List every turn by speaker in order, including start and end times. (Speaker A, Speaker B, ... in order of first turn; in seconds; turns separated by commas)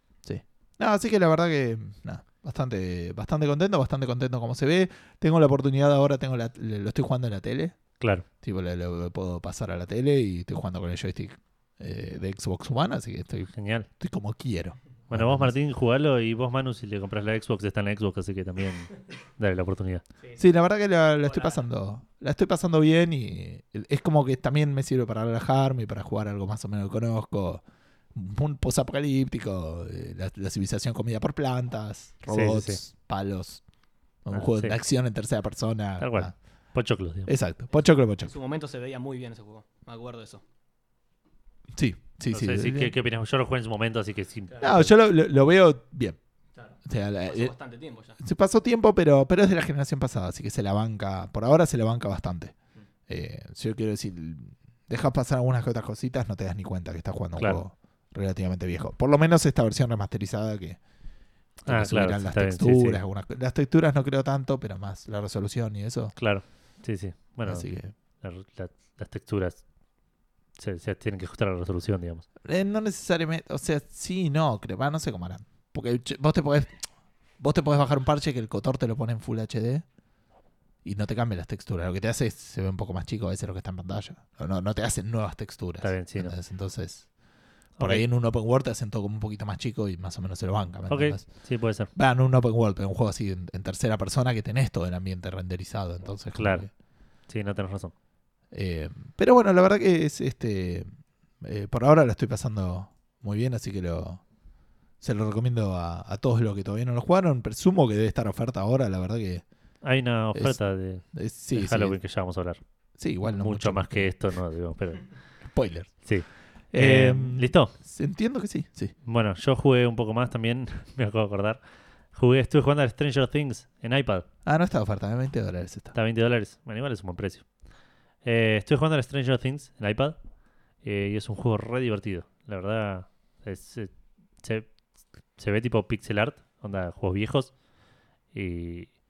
Speaker A: 0.2-7.8, Speaker B: 8.0-8.2, Speaker A: 8.4-15.5, Speaker B: 13.5-13.9, Speaker B: 15.1-20.0, Speaker A: 20.4-27.6, Speaker C: 21.2-21.7, Speaker A: 28.1-33.6, Speaker B: 32.3-32.8, Speaker A: 34.2-36.3, Speaker B: 34.3-34.8, Speaker B: 36.0-37.3, Speaker A: 37.2-38.3, Speaker C: 38.2-40.4, Speaker A: 41.7-42.9, Speaker B: 42.3-44.9, Speaker C: 44.5-44.8, Speaker A: 44.6-46.2, Speaker C: 46.5-48.1, Speaker A: 46.9-47.5, Speaker A: 48.2-52.5, Speaker A: 53.1-60.8, Speaker B: 57.4-57.6, Speaker A: 61.6-66.1, Speaker B: 61.7-63.0, Speaker B: 66.2-69.6, Speaker A: 67.4-67.9, Speaker B: 70.6-72.2, Speaker A: 72.4-76.8, Speaker A: 77.4-79.8, Speaker A: 80.8-87.1, Speaker B: 85.8-86.3, Speaker B: 87.8-88.0, Speaker A: 87.8-91.3, Speaker B: 90.9-91.9, Speaker A: 91.9-96.7, Speaker B: 96.3-96.7, Speaker B: 97.3-97.9, Speaker A: 98.5-100.9, Speaker A: 101.4-104.2, Speaker A: 105.0-109.4, Speaker B: 109.8-112.6, Speaker A: 110.3-110.6, Speaker A: 111.1-112.0, Speaker A: 113.0-114.1, Speaker B: 113.3-115.0, Speaker A: 115.5-116.0, Speaker B: 116.0-117.7, Speaker A: 116.7-118.9, Speaker B: 119.0-121.6, Speaker B: 122.1-124.2, Speaker A: 124.5-125.9, Speaker B: 125.9-127.4, Speaker B: 128.2-130.2, Speaker B: 130.8-134.7, Speaker B: 135.3-137.5, Speaker B: 138.3-138.9